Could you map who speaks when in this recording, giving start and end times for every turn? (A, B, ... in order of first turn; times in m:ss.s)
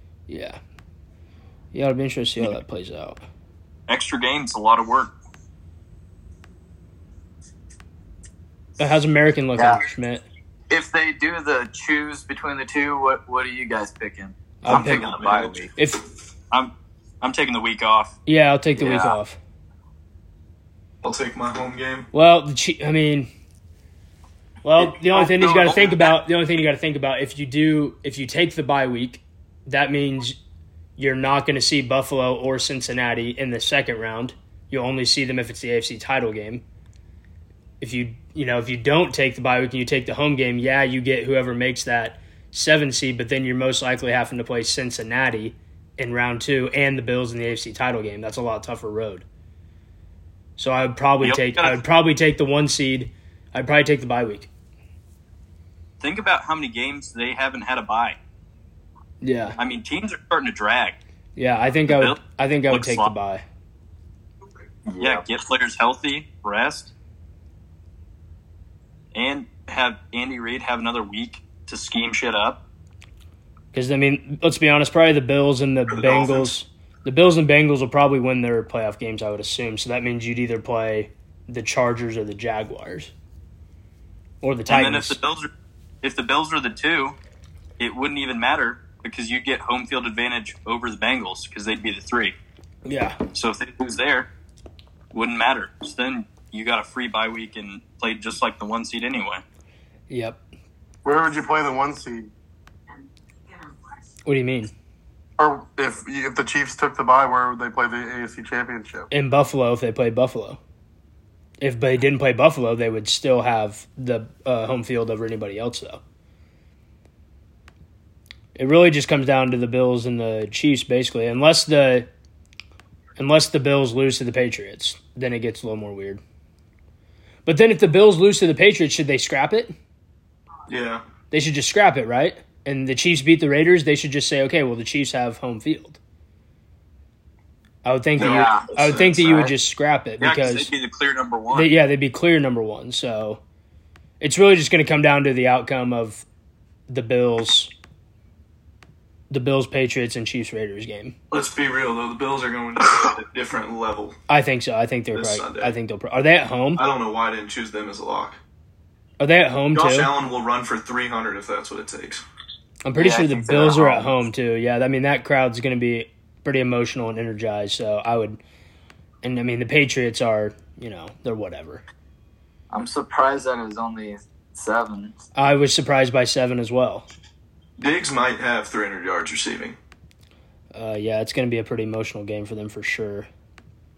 0:00.3-0:00.6 A
0:01.7-0:03.2 A
0:03.9-0:05.1 B
0:08.8-0:10.2 A
0:09.6-0:09.8 C
0:10.7-0:15.7 C
0:14.6-0:15.1 A
0:14.7-0:15.6 D
0:15.8-0:16.0 A
0:16.5-0:18.1 B
0:18.2-0:19.4 A
0:18.8-0:19.2 C
0:21.0-0:22.1 D
0:22.1-0:23.3 A
0:24.6-0:30.4 A
0:25.1-0:26.1 C
0:31.0-0:36.6 A
0:37.8-0:49.2 A
0:50.6-0:54.5 A
0:51.2-0:51.8 B
0:56.0-0:58.2 B
0:59.2-0:59.6 A
0:59.6-1:01.0 B
1:01.4-1:03.4 A
1:01.9-1:02.2 B
1:02.7-1:03.1 B
1:04.9-1:05.2 C
1:05.0-1:06.9 B
1:09.1-1:12.6 B
1:13.7-1:23.1 A
1:15.9-1:16.5 D
1:24.4-1:25.2 A
1:24.7-1:25.5 B
1:26.0-1:27.2 B
1:27.8-1:32.3 B
1:32.8-1:33.2 A
1:33.3-1:34.3 B
1:35.1-1:39.4 B
1:40.1-1:40.4 A
1:41.0-1:42.3 E
1:44.2-1:44.7 A
1:45.4-1:49.1 E
1:49.1-1:50.6 A
1:51.6-1:56.0 A
1:58.6-2:02.1 A
2:03.2-2:06.2 A
2:07.4-2:09.7 A
2:10.7-2:11.0 D
2:11.3-2:16.0 A
2:17.8-2:20.7 A
2:18.2-2:19.2 D
2:18.2-2:19.5 C
2:20.2-2:21.7 B
2:21.5-2:23.4 A
2:24.2-2:26.2 A
2:26.9-2:27.7 A
2:29.3-2:31.1 A
2:31.3-2:34.2 D
2:34.3-2:36.8 A
2:35.1-2:35.8 D
2:36.8-2:38.4 D
2:39.2-2:40.1 A
2:39.7-2:42.2 D
2:42.8-2:48.4 A
2:43.0-2:44.2 C
2:49.2-2:51.8 A
2:52.7-2:55.2 C
2:55.4-2:57.0 A
2:57.8-2:59.8 D
3:00.7-3:03.3 A